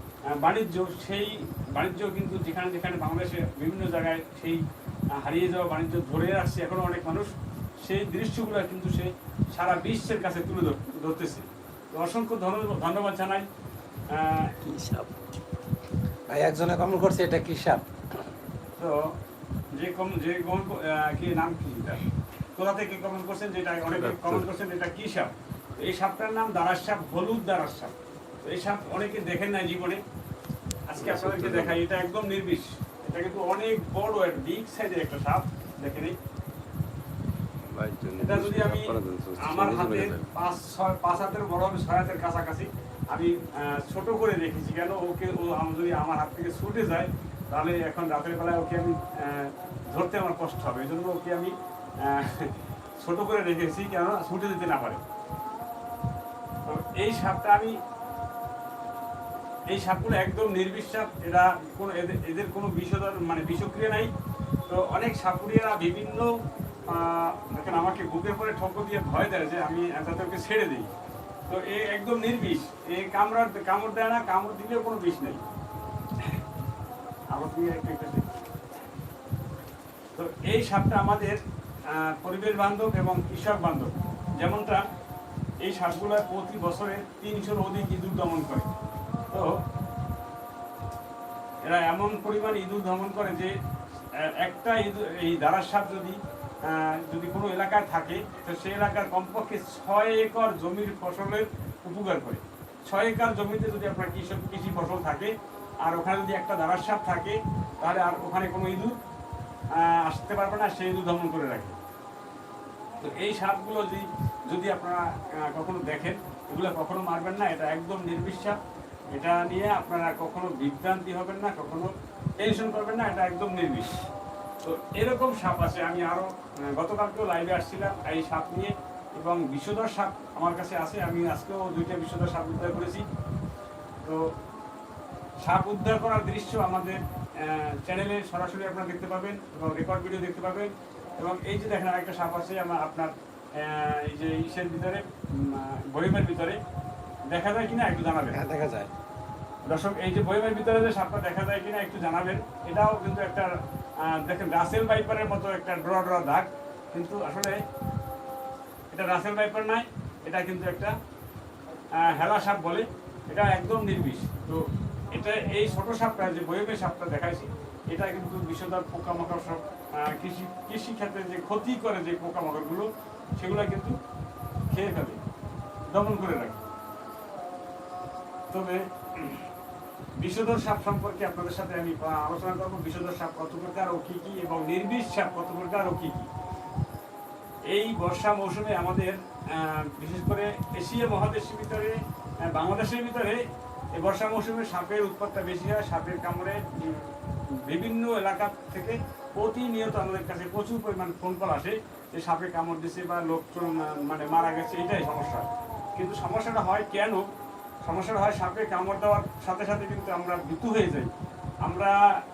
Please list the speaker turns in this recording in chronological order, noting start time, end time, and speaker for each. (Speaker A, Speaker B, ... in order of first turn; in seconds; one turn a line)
Speaker A: 0.3-4.6
Speaker A: 5.1-13.5
Speaker A: 14.1-14.5
Speaker B: 14.6-15.1
Speaker C: 16.3-17.9
Speaker A: 18.8-19.1
Speaker A: 19.8-30.0
Speaker B: 23.9-24.5
Speaker A: 30.9-36.2
Speaker B: 31.0-31.8
Speaker B: 37.7-40.3
Speaker A: 38.2-55.0
Speaker A: 56.7-57.8
Speaker A: 59.7-64.1
Speaker A: 64.7-66.3
Speaker A: 66.9-70.9
Speaker A: 71.5-75.4
Speaker A: 77.3-78.3
Speaker A: 80.2-84.8
Speaker A: 85.6-88.7
Speaker A: 89.3-89.6
Speaker A: 91.7-93.5
Speaker A: 94.2-109.0
Speaker A: 109.8-111.8
Speaker A: 113.0-118.6
Speaker A: 119.1-124.0
Speaker A: 124.6-133.1
Speaker A: 135.4-146.6
Speaker A: 147.3-148.4
Speaker C: 148.3-148.9
Speaker A: 149.7-153.5
Speaker A: 154.1-157.6
Speaker A: 158.9-160.9
Speaker A: 162.0-164.6
Speaker A: 165.1-174.0
Speaker A: 174.7-175.2
Speaker A: 175.9-176.7
Speaker A: 178.5-179.5
Speaker A: 180.2-186.3
Speaker A: 187.7-192.0
Speaker A: 192.5-193.4
Speaker A: 193.9-207.2
Speaker A: 207.8-211.1
Speaker A: 211.6-212.0